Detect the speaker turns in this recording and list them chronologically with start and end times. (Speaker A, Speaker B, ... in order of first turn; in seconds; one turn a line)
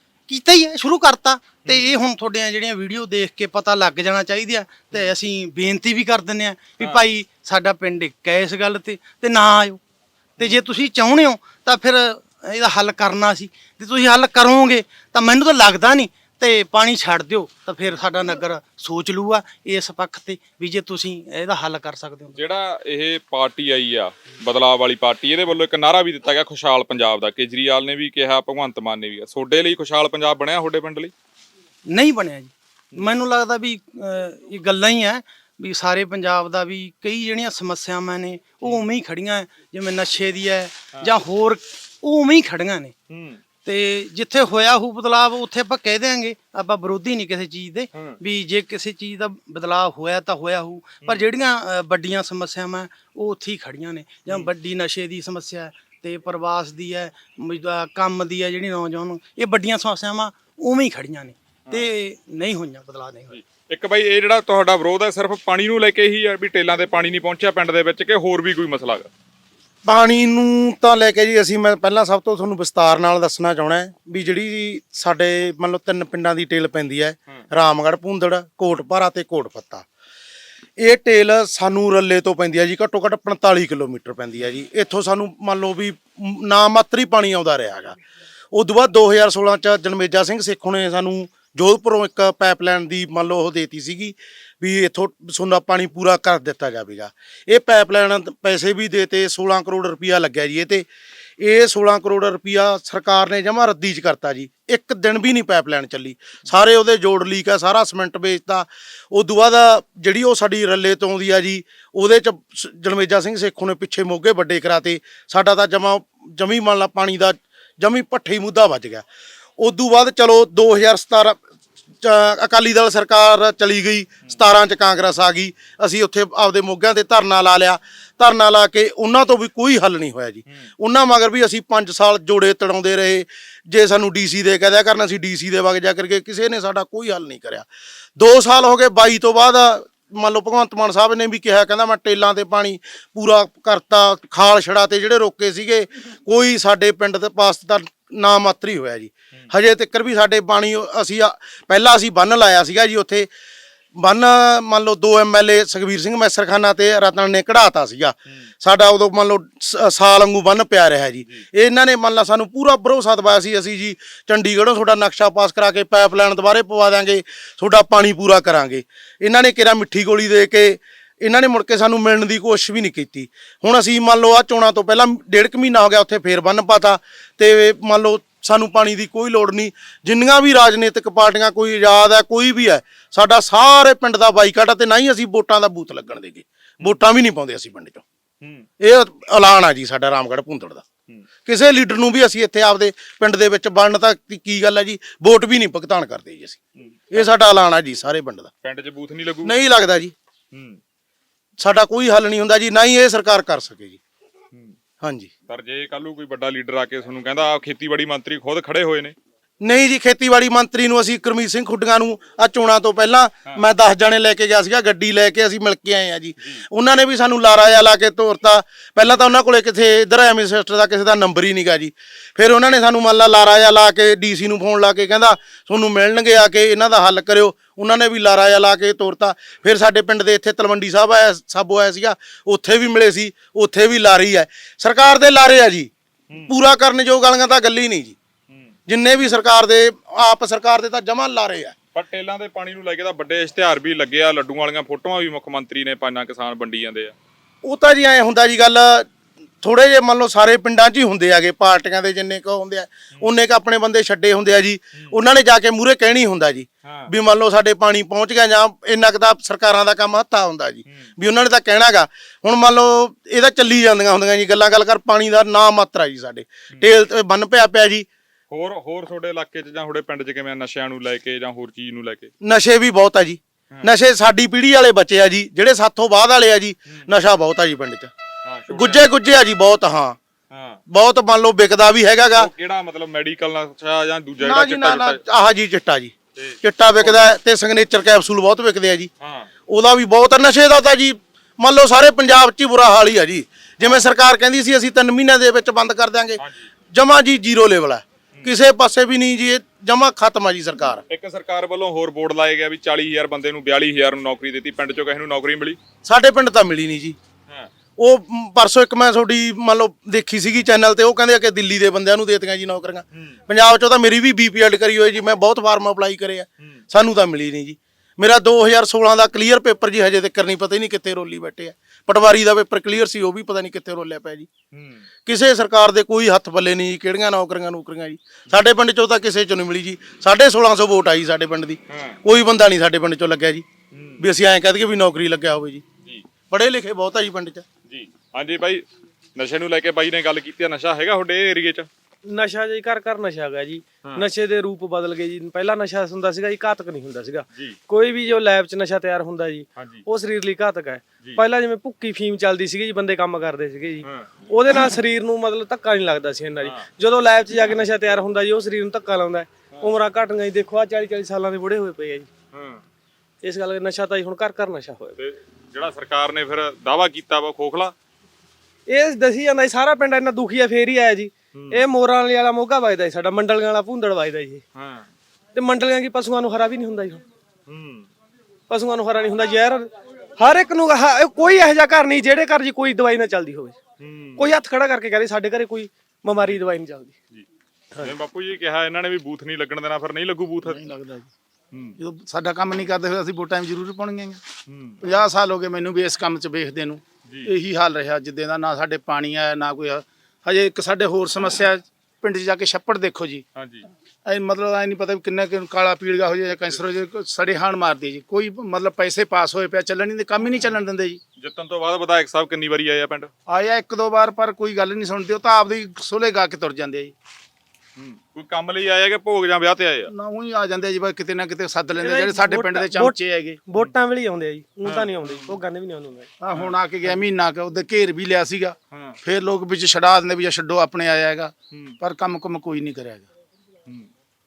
Speaker A: 0.3-9.8
Speaker B: 1.6-1.9
Speaker B: 6.8-7.0
Speaker B: 10.4-10.6
Speaker A: 10.4-22.4
Speaker B: 22.3-31.1
Speaker A: 31.9-42.9
Speaker B: 43.1-43.4
Speaker A: 43.6-63.4
Speaker B: 47.9-48.2
Speaker B: 63.3-69.1
Speaker C: 69.8-79.8
Speaker C: 80.8-88.0
Speaker C: 88.5-100.8
Speaker C: 101.4-119.0
Speaker C: 119.6-121.4
Speaker C: 122.0-137.7
Speaker C: 138.2-153.3
Speaker C: 153.9-188.0
Speaker B: 188.4-188.7
Speaker C: 188.8-190.8
Speaker C: 191.4-196.6
Speaker B: 196.8-197.2
Speaker C: 197.1-198.5
Speaker B: 198.6-199.5
Speaker C: 199.4-200.1
Speaker B: 200.5-200.8
Speaker C: 201.6-204.0
Speaker C: 205.0-205.3
Speaker B: 205.5-209.1
Speaker C: 209.6-235.9
Speaker C: 236.4-238.2
Speaker B: 238.5-238.7
Speaker C: 238.9-241.7
Speaker B: 241.9-247.1
Speaker C: 247.6-249.1
Speaker C: 249.6-268.1
Speaker B: 256.8-257.1
Speaker B: 268.5-272.3
Speaker C: 272.4-278.1
Speaker B: 278.4-279.0
Speaker C: 278.7-280.2
Speaker B: 280.5-280.8
Speaker C: 280.9-282.5
Speaker B: 282.4-285.2
Speaker C: 284.4-289.1
Speaker B: 286.4-287.2
Speaker B: 289.2-289.5
Speaker C: 289.7-301.0
Speaker B: 296.4-296.7
Speaker B: 301.1-305.8
Speaker C: 306.0-307.2
Speaker C: 308.0-324.5
Speaker B: 324.7-325.0
Speaker C: 325.2-333.6
Speaker B: 331.9-332.2
Speaker B: 333.9-334.2
Speaker C: 334.2-335.8
Speaker C: 336.5-337.6
Speaker B: 337.9-338.8
Speaker B: 339.3-341.9
Speaker D: 342.2-362.3
Speaker B: 349.8-350.0
Speaker B: 354.0-354.3
Speaker B: 362.5-362.8
Speaker D: 363.4-365.2
Speaker B: 365.2-367.9
Speaker D: 368.9-374.6
Speaker B: 371.5-371.8
Speaker B: 374.7-375.1
Speaker D: 375.5-377.2
Speaker B: 377.7-378.1
Speaker D: 378.7-383.8
Speaker B: 384.0-384.5
Speaker D: 384.4-387.1
Speaker B: 388.0-390.8
Speaker E: 390.6-391.3
Speaker B: 391.7-392.0
Speaker E: 392.0-394.4
Speaker B: 394.7-395.0
Speaker E: 395.0-403.4
Speaker B: 403.5-403.9
Speaker E: 404.2-411.2
Speaker B: 411.4-413.3
Speaker E: 413.5-417.1
Speaker B: 418.0-420.1
Speaker E: 420.1-423.6
Speaker D: 422.0-426.3
Speaker B: 424.8-425.5
Speaker E: 426.4-433.3
Speaker B: 428.9-429.2
Speaker B: 431.7-432.0